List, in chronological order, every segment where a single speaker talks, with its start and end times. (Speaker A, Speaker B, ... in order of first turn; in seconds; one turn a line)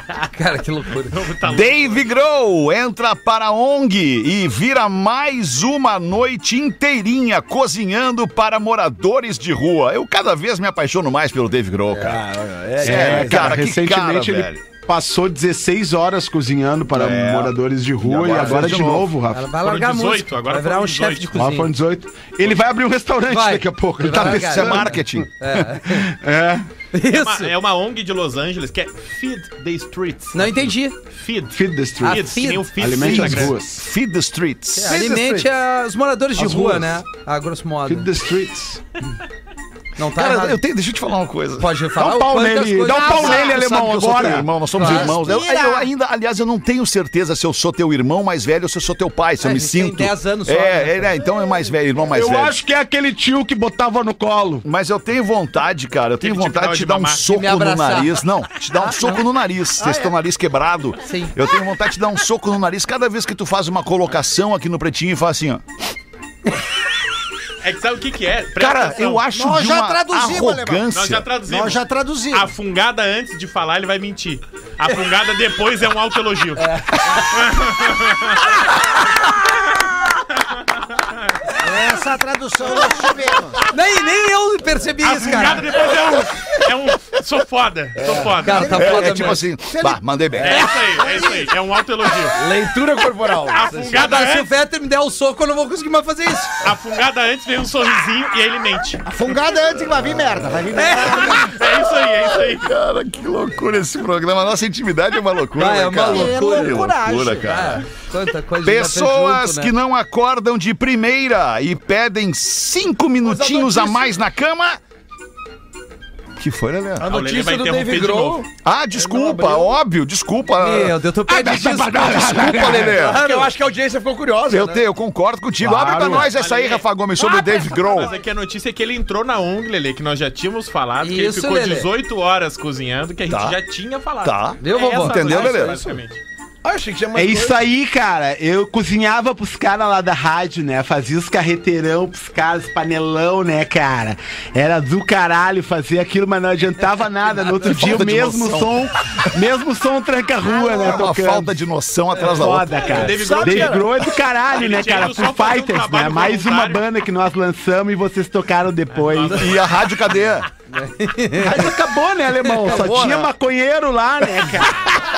Speaker A: 0.1-1.2
Speaker B: 1.1-2.1
Speaker C: 1.4-12.2
Speaker D: 12.0-13.6
Speaker E: 12.8-19.5
Speaker C: 12.8-14.6
Speaker C: 16.9-19.1
Speaker A: 19.3-21.7
Speaker B: 19.6-21.4
Speaker E: 21.4-25.0
Speaker A: 23.3-26.1
Speaker C: 24.1-25.3
Speaker E: 25.8-26.6
Speaker A: 26.9-27.5
Speaker B: 27.0-33.5
Speaker A: 30.3-30.9
Speaker E: 31.5-33.8
Speaker A: 32.0-32.7
Speaker C: 33.0-34.9
Speaker A: 34.7-38.1
Speaker D: 35.0-35.4
Speaker E: 36.4-37.0
Speaker E: 37.9-38.8
Speaker A: 40.0-40.6
Speaker C: 40.1-41.7
Speaker A: 41.6-43.5
Speaker E: 41.9-44.5
Speaker F: 42.9-43.6
Speaker C: 43.0-52.6
Speaker A: 44.7-45.2
Speaker F: 44.8-45.9
Speaker A: 49.4-51.1
Speaker E: 52.1-54.6
Speaker C: 54.6-65.6
Speaker B: 56.2-57.3
Speaker A: 57.3-59.2
Speaker A: 61.1-61.3
Speaker B: 67.6-69.2
Speaker C: 68.6-71.3
Speaker F: 69.3-70.9
Speaker B: 70.9-78.5
Speaker F: 71.5-72.5
Speaker A: 76.6-77.2
Speaker F: 81.6-83.6
Speaker A: 83.7-85.7
Speaker B: 85.0-89.0
Speaker D: 88.0-88.3
Speaker A: 88.4-89.4
Speaker F: 88.4-91.5
Speaker C: 88.6-90.7
Speaker B: 90.4-92.4
Speaker D: 92.3-94.0
Speaker B: 93.5-94.5
Speaker A: 93.9-96.6
Speaker B: 96.6-99.0
Speaker F: 99.0-101.6
Speaker C: 100.4-100.9
Speaker A: 100.7-101.3
Speaker B: 101.0-102.7
Speaker C: 101.6-107.9
Speaker A: 105.6-109.7
Speaker F: 106.0-107.7
Speaker C: 108.6-114.8
Speaker D: 113.2-114.1
Speaker C: 116.4-117.1
Speaker D: 117.0-119.7
Speaker B: 117.0-118.4
Speaker C: 118.6-123.2
Speaker A: 120.6-123.5
Speaker E: 121.3-122.9
Speaker D: 122.9-124.8
Speaker C: 124.5-128.1
Speaker E: 125.6-126.2
Speaker B: 126.1-126.9
Speaker B: 127.4-136.2
Speaker A: 131.0-131.9
Speaker C: 133.3-133.6
Speaker C: 134.2-135.9
Speaker A: 134.6-135.6
Speaker D: 136.6-137.6
Speaker E: 137.1-151.5
Speaker C: 147.7-148.8
Speaker F: 150.4-150.9
Speaker C: 150.7-152.9
Speaker E: 152.2-159.5
Speaker B: 152.7-156.8
Speaker D: 152.9-154.0
Speaker B: 158.9-159.7
Speaker C: 159.3-160.5
Speaker A: 160.7-161.7
Speaker E: 161.3-164.9
Speaker C: 162.6-163.3